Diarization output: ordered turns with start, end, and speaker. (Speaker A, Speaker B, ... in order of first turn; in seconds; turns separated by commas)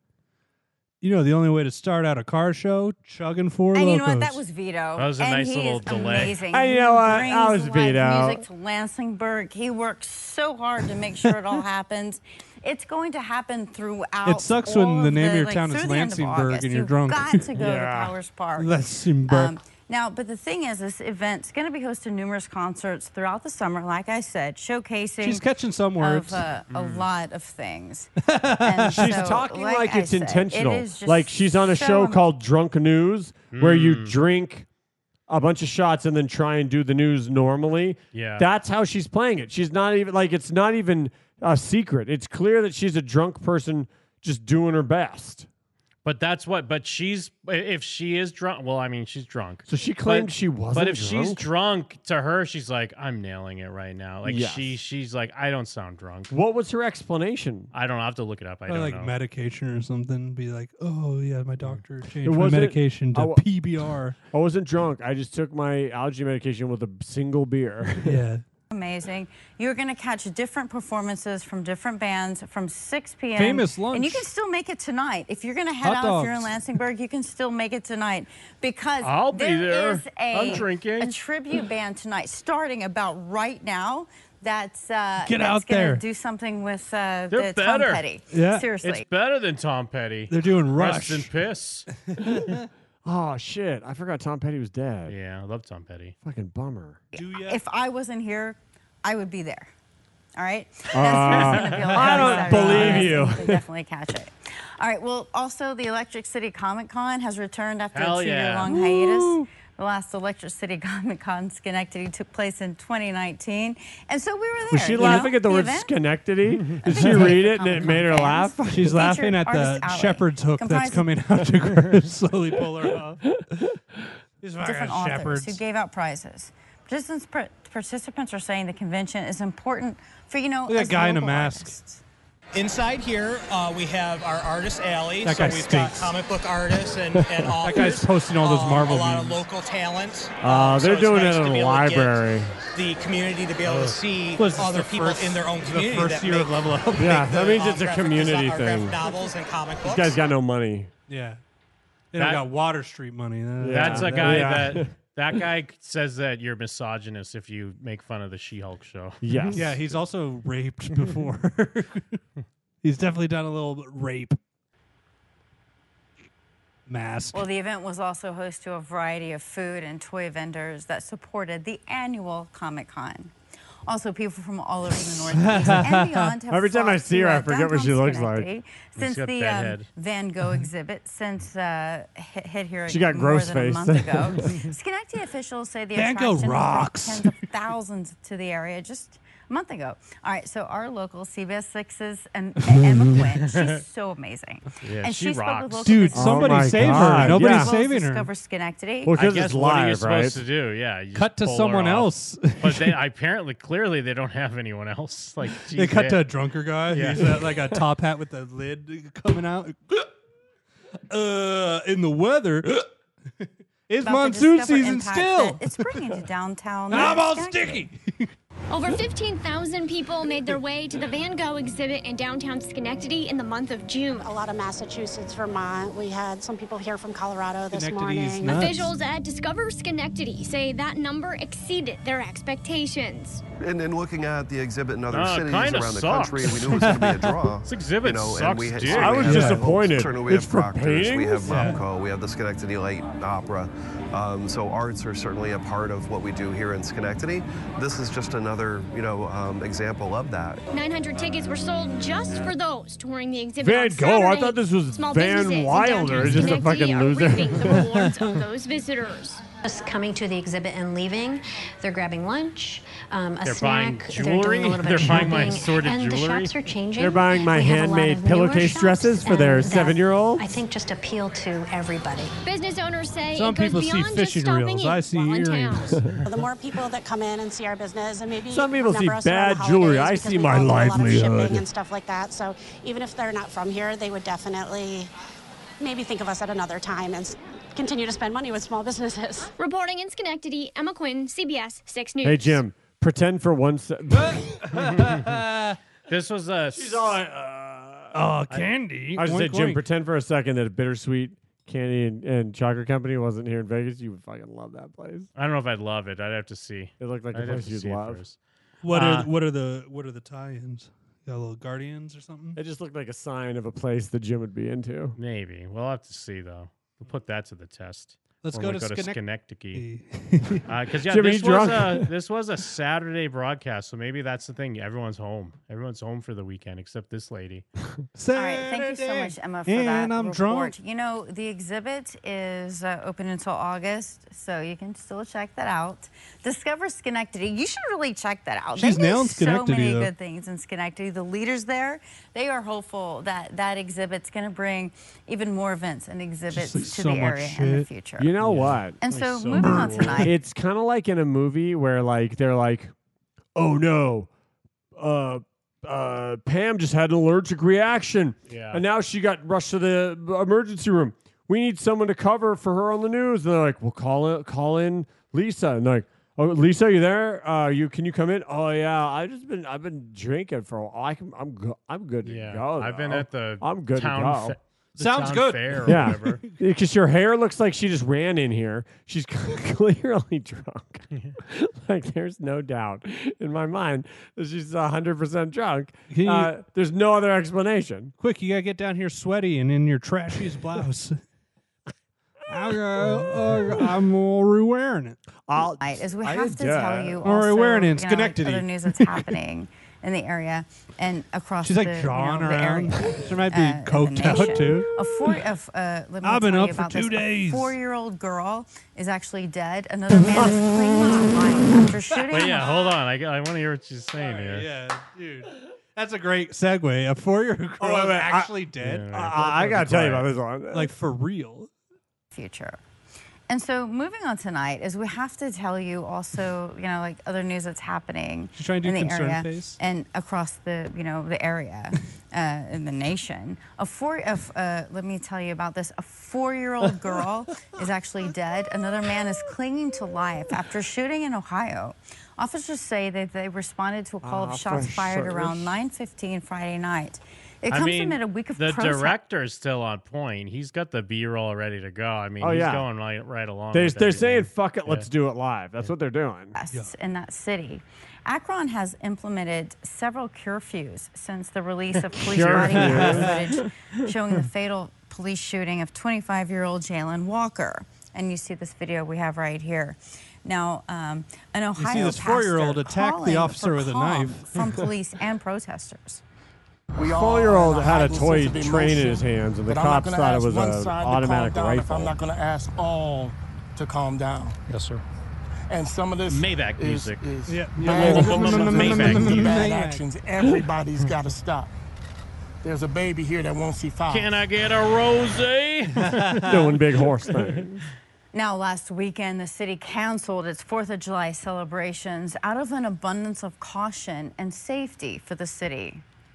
Speaker A: 1.0-4.4, Speaker B: 3.7-18.7, Speaker C: 5.0-6.4, Speaker D: 6.5-8.4, Speaker A: 14.2-17.5, Speaker D: 17.6-18.1, Speaker A: 18.6-19.5, Speaker B: 19.3-25.4, Speaker A: 25.2-26.4, Speaker B: 26.0-32.2, Speaker C: 26.7-27.1, Speaker A: 28.2-29.2, Speaker D: 28.9-34.6, Speaker C: 33.5-34.1, Speaker D: 35.3-45.5, Speaker C: 38.1-38.4, Speaker C: 46.0-56.3, Speaker D: 49.7-51.4, Speaker D: 54.2-54.8, Speaker D: 56.3-57.7, Speaker C: 57.7-59.1, Speaker A: 58.7-64.2, Speaker D: 62.2-63.4, Speaker D: 64.3-68.2, Speaker A: 68.0-68.4, Speaker B: 68.7-89.0, Speaker A: 73.3-74.2, Speaker A: 75.8-76.6, Speaker C: 79.0-81.1, Speaker A: 85.2-86.0, Speaker C: 87.3-88.0, Speaker A: 88.3-88.7, Speaker C: 88.8-91.9, Speaker A: 90.3-91.3, Speaker A: 92.1-92.7, Speaker D: 93.0-95.1, Speaker C: 95.1-96.1, Speaker D: 96.2-97.0, Speaker A: 97.1-97.6, Speaker B: 97.2-99.7, Speaker B: 100.4-115.9, Speaker D: 100.9-103.6, Speaker A: 101.8-103.2, Speaker C: 107.9-108.7, Speaker D: 108.6-109.5, Speaker D: 114.7-118.5, Speaker A: 115.0-115.3, Speaker B: 116.8-121.1, Speaker A: 117.0-117.9, Speaker A: 118.7-123.7, Speaker A: 124.4-125.6, Speaker B: 124.6-132.0, Speaker A: 130.7-131.7, Speaker E: 132.5-142.2, Speaker A: 135.2-136.1, Speaker A: 137.6-139.4, Speaker D: 140.4-142.5, Speaker E: 142.7-150.2, Speaker C: 143.6-144.0, Speaker A: 144.3-147.2, Speaker D: 146.9-149.0, Speaker D: 149.8-150.9, Speaker A: 151.1-151.4, Speaker A: 152.1-154.8, Speaker C: 152.2-152.5, Speaker D: 153.6-154.9, Speaker C: 153.7-159.6, Speaker D: 159.2-159.8, Speaker A: 159.5-162.2, Speaker A: 162.8-164.4, Speaker A: 166.9-167.4, Speaker B: 167.3-173.3, Speaker B: 173.9-199.1, Speaker A: 175.3-176.3, Speaker D: 176.5-178.5, Speaker C: 178.9-179.9, Speaker D: 182.9-184.6, Speaker A: 185.9-187.3, Speaker C: 193.5-193.8, Speaker C: 194.8-196.0, Speaker A: 195.8-198.3, Speaker D: 196.1-197.7, Speaker D: 199.0-200.4, Speaker C: 199.1-206.2, Speaker A: 201.1-202.9, Speaker A: 205.7-210.1, Speaker C: 206.9-207.4, Speaker A: 211.1-212.8, Speaker A: 213.9-215.7, Speaker B: 214.0-217.8, Speaker A: 216.9-218.3, Speaker F: 218.7-224.3, Speaker G: 224.2-228.7, Speaker A: 227.7-228.9, Speaker F: 228.5-233.4, Speaker H: 233.6-250.6, Speaker C: 235.1-237.0, Speaker A: 236.7-237.3, Speaker C: 237.6-239.3, Speaker D: 238.9-241.7, Speaker A: 239.2-239.6, Speaker A: 241.5-241.8, Speaker F: 250.7-259.4, Speaker D: 253.6-258.1, Speaker I: 259.6-272.3, Speaker C: 263.4-266.6, Speaker D: 267.0-270.5, Speaker F: 272.4-276.0, Speaker A: 273.3-276.1, Speaker G: 276.2-285.1, Speaker D: 278.5-281.6, Speaker G: 285.8-289.5, Speaker F: 289.6-292.6, Speaker D: 292.2-294.4, Speaker A: 294.1-295.7, Speaker C: 294.8-295.1, Speaker C: 296.1-297.1, Speaker D: 296.7-298.1, Speaker A: 298.1-299.8, Speaker D: 299.1-305.3, Speaker C: 305.4-308.4, Speaker D: 307.0-308.2, Speaker A: 308.8-312.6, Speaker C: 308.9-309.3, Speaker D: 312.6-315.2, Speaker C: 315.2-319.8, Speaker A: 318.4-319.2, Speaker A: 319.7-320.6, Speaker C: 320.7-327.6, Speaker D: 321.1-322.1, Speaker A: 328.1-330.7, Speaker B: 328.3-348.3, Speaker A: 338.7-340.1, Speaker A: 346.5-347.9, Speaker D: 348.2-349.0, Speaker C: 348.4-350.2, Speaker B: 349.0-350.3, Speaker A: 349.6-350.3, Speaker D: 350.2-352.9, Speaker D: 353.6-354.3, Speaker D: 355.0-374.6, Speaker C: 358.5-358.8, Speaker C: 372.2-376.4, Speaker A: 375.0-376.5, Speaker D: 375.9-388.1, Speaker A: 386.1-386.5, Speaker A: 388.2-391.2, Speaker A: 392.5-395.2, Speaker D: 393.0-393.7, Speaker D: 395.5-397.2, Speaker B: 395.8-412.8, Speaker A: 397.2-399.2, Speaker A: 401.6-404.9, Speaker A: 406.2-407.7, Speaker C: 412.3-414.7, Speaker A: 414.2-421.7, Speaker D: 417.8-418.5, Speaker C: 418.8-420.2, Speaker D: 419.1-420.9, Speaker B: 422.3-422.8, Speaker B: 423.5-449.2, Speaker A: 428.5-429.8, Speaker D: 444.2-445.8, Speaker C: 447.7-455.1, Speaker D: 452.4-452.8, Speaker D: 453.7-456.5, Speaker B: 456.5-476.2, Speaker D: 462.2-463.5, Speaker C: 462.3-462.8, Speaker A: 462.6-463.4, Speaker A: 471.8-474.6, Speaker J: 476.9-484.6, Speaker D: 477.1-482.1, Speaker J: 485.7-491.7, Speaker C: 486.3-487.2, Speaker A: 487.5-490.0, Speaker C: 487.8-489.6, Speaker J: 492.6-494.3, Speaker C: 494.1-496.3, Speaker A: 496.0-496.6, Speaker D: 496.4-497.8, Speaker C: 497.3-497.6, Speaker B: 498.3-506.0